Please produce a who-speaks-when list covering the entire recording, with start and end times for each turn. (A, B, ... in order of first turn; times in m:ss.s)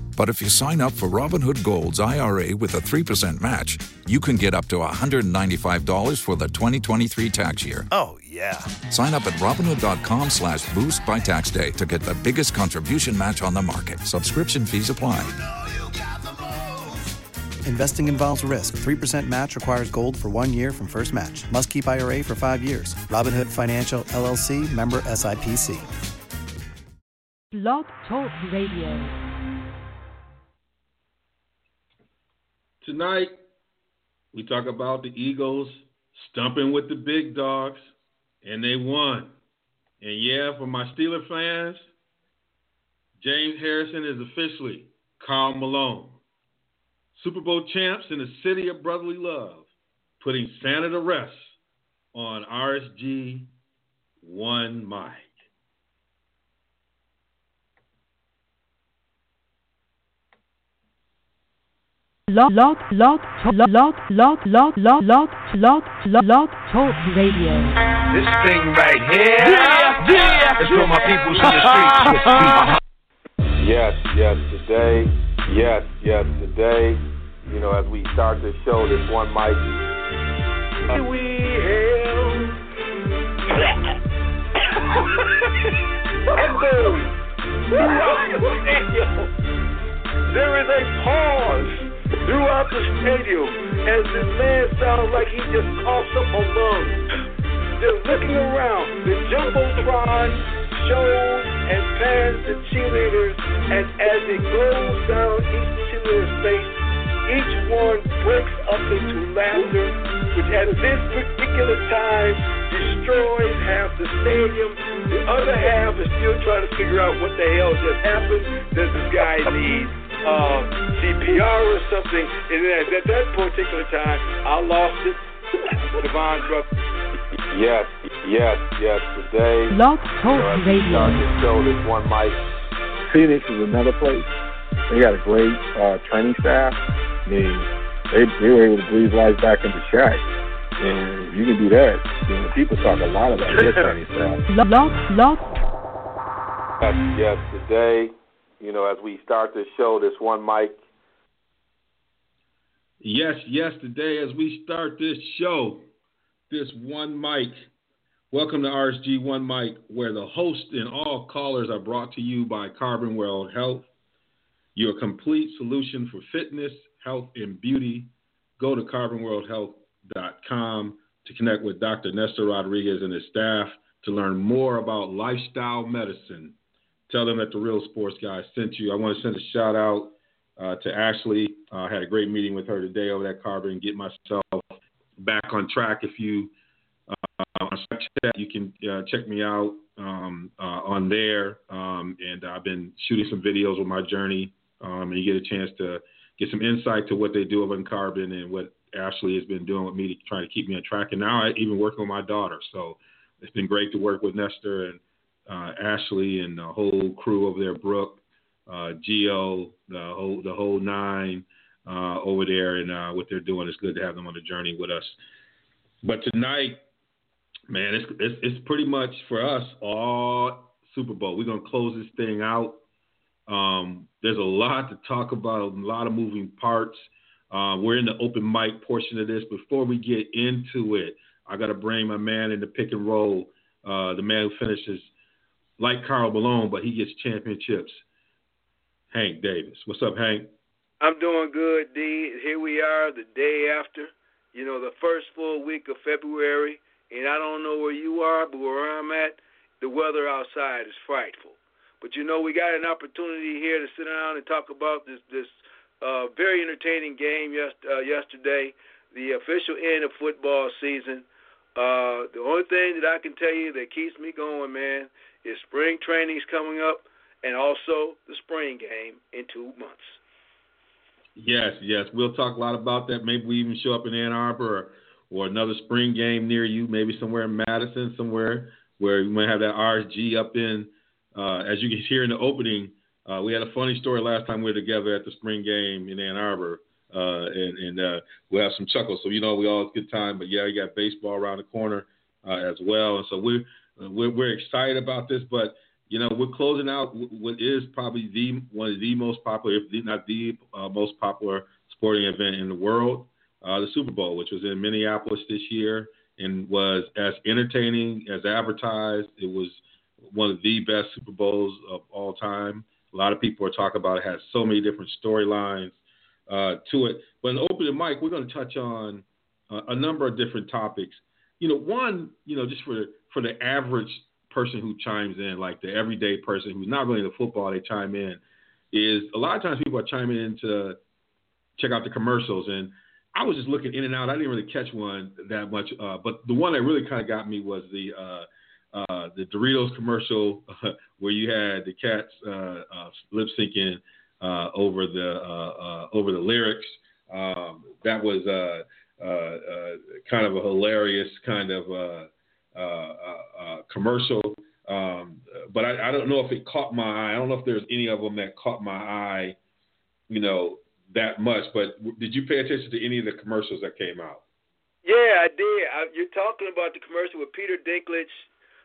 0:00.2-0:07.9 A
0:07.9-0:08.8 B
0:08.8-0:15.4 A
0:16.1-0:16.9 B
0:17.6-0:25.9 B
0:27.5-0:29.1 C
0:32.8-0:33.4 D
0:34.3-0:37.9 D
0:38.4-0:39.3 D
0:40.0-0:41.9 D
0:43.2-0:46.2 D
0:47.2-0:49.7 D
0:50.2-0:51.6 D
0:52.1-0:53.5 D
0:54.2-0:55.3 D
1:02.3-1:07.8 C
1:08.1-1:09.9 E
1:09.4-1:11.6 F
1:10.6-1:12.0 E
1:13.6-1:19.7 F
1:20.9-1:22.6 E
1:26.3-1:27.1 E
1:27.7-1:29.3 E
1:30.3-1:37.0 E
1:37.8-2:05.2 E
2:05.9-2:06.7 E
2:07.5-2:12.4 F
2:09.7-2:11.3 C
2:13.1-2:14.3 G
2:14.9-2:20.2 G
2:20.8-2:24.4 G
2:23.5-2:24.0 F
2:24.5-2:25.5 C
2:26.8-2:30.8 F
2:33.0-2:35.9 D
2:36.5-2:37.7 D
2:38.3-2:43.9 D
2:44.8-2:56.6 D
2:57.1-3:06.5 D
3:07.4-3:35.2 D
3:36.0-3:36.8 D
3:37.7-3:42.8 D
3:43.5-3:55.1 D
3:55.8-3:58.0 D
3:59.1-4:00.5 D
4:01.0-4:30.2 E
4:31.4-5:16.0 D
5:16.5-5:28.4 D
5:28.9-5:31.0 D
5:31.8-5:59.6 D
6:00.3-6:04.4 D
6:05.0-6:08.5 E